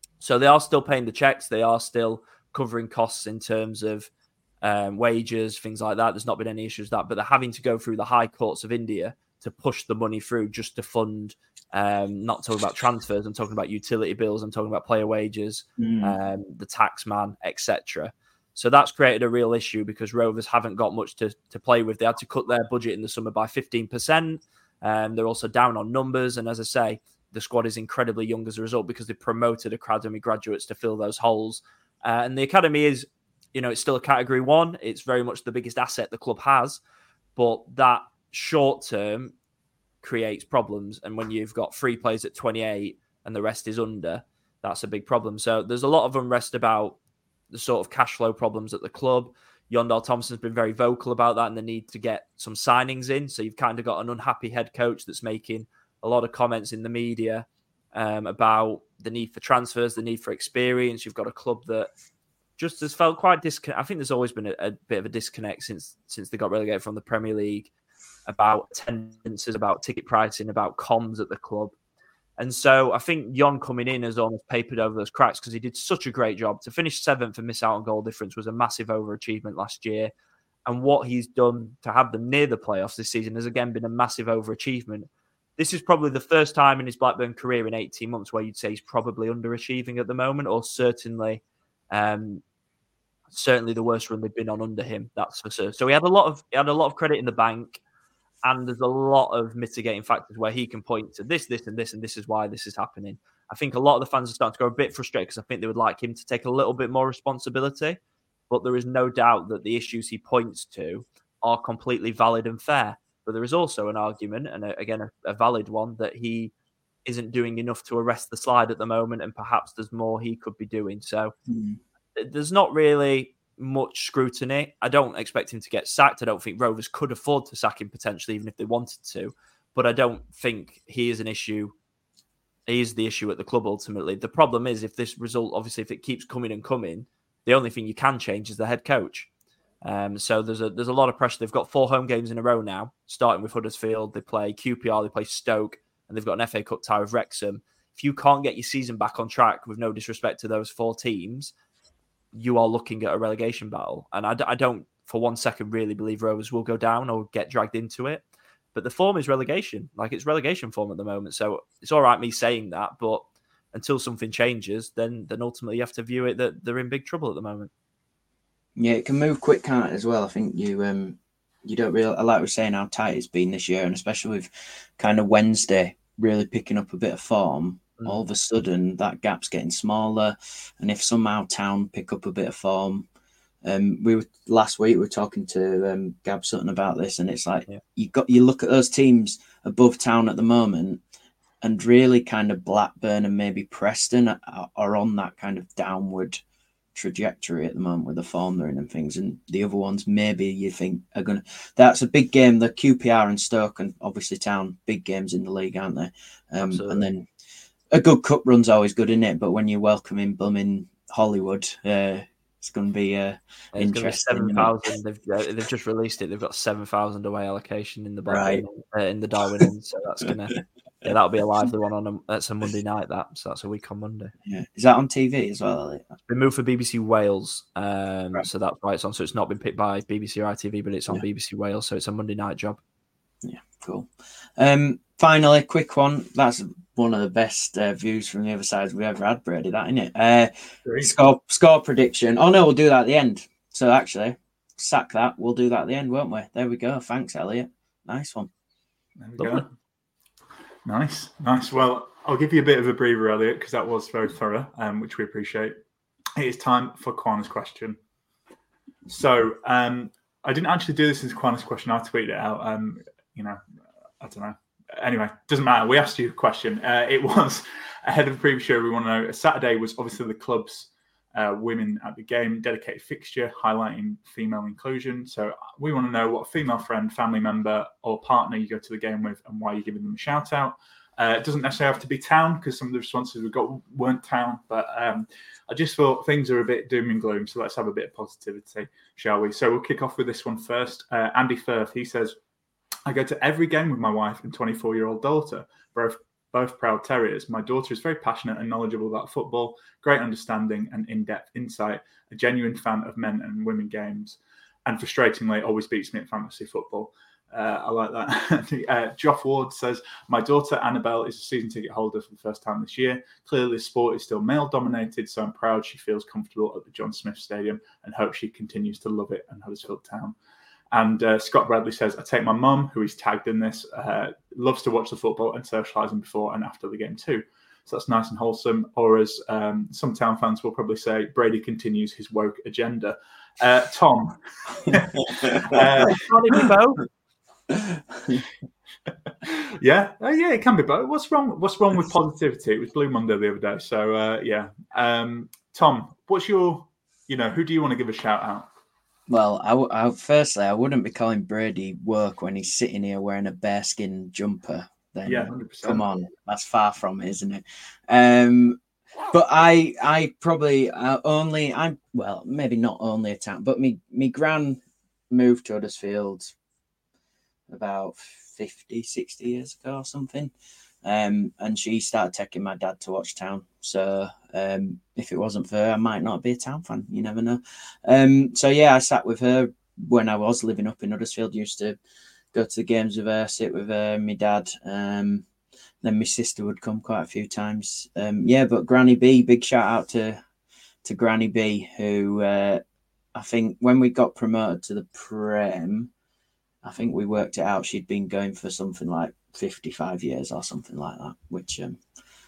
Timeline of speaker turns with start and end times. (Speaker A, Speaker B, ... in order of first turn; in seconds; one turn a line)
Speaker A: 0.2-4.1
Speaker A: 4.6-36.8
Speaker B: 15.8-16.2
Speaker A: 37.4-39.3
Speaker A: 40.0-47.0
Speaker A: 47.5-61.9
Speaker A: 62.6-67.7
Speaker A: 68.3-71.7
Speaker A: 72.4-80.1
Speaker A: 80.7-92.4
Speaker A: 93.3-97.8
Speaker A: 98.4-108.0
Speaker A: 108.5-116.5
Speaker A: 117.0-121.3
Speaker B: 121.5-121.8
Speaker A: 122.2-131.8
Speaker A: 132.7-139.3
Speaker A: 139.8-151.5
Speaker A: 152.3-167.7
Speaker B: 168.8-183.1
Speaker B: 183.6-191.0
Speaker B: 191.6-196.4
Speaker B: 196.9-207.3
Speaker A: 206.6-207.0
Speaker B: 207.9-214.9
Speaker A: 213.8-224.3
Speaker B: 218.3-218.6
Speaker B: 224.4-226.1
Speaker A: 226.3-232.8
Speaker B: 233.4-248.5
Speaker C: 240.9-241.1
Speaker C: 249.2-249.7
Speaker B: 249.4-249.6
Speaker C: 250.9-255.8
Speaker C: 256.4-258.0
Speaker C: 259.1-263.6
Speaker C: 264.2-292.4
Speaker C: 293.1-320.4
Speaker C: 320.9-336.6
Speaker A: 336.1-337.1
Speaker B: 337.8-338.4
Speaker C: 339.4-348.7
Speaker B: 349.3-366.5
Speaker C: 355.2-356.1
Speaker B: 367.7-370.5
Speaker B: 371.0-382.0
Speaker B: 382.5-385.5
Speaker B: 386.0-390.4
Speaker B: 391.0-392.8
Speaker B: 393.4-396.1
Speaker B: 396.8-402.0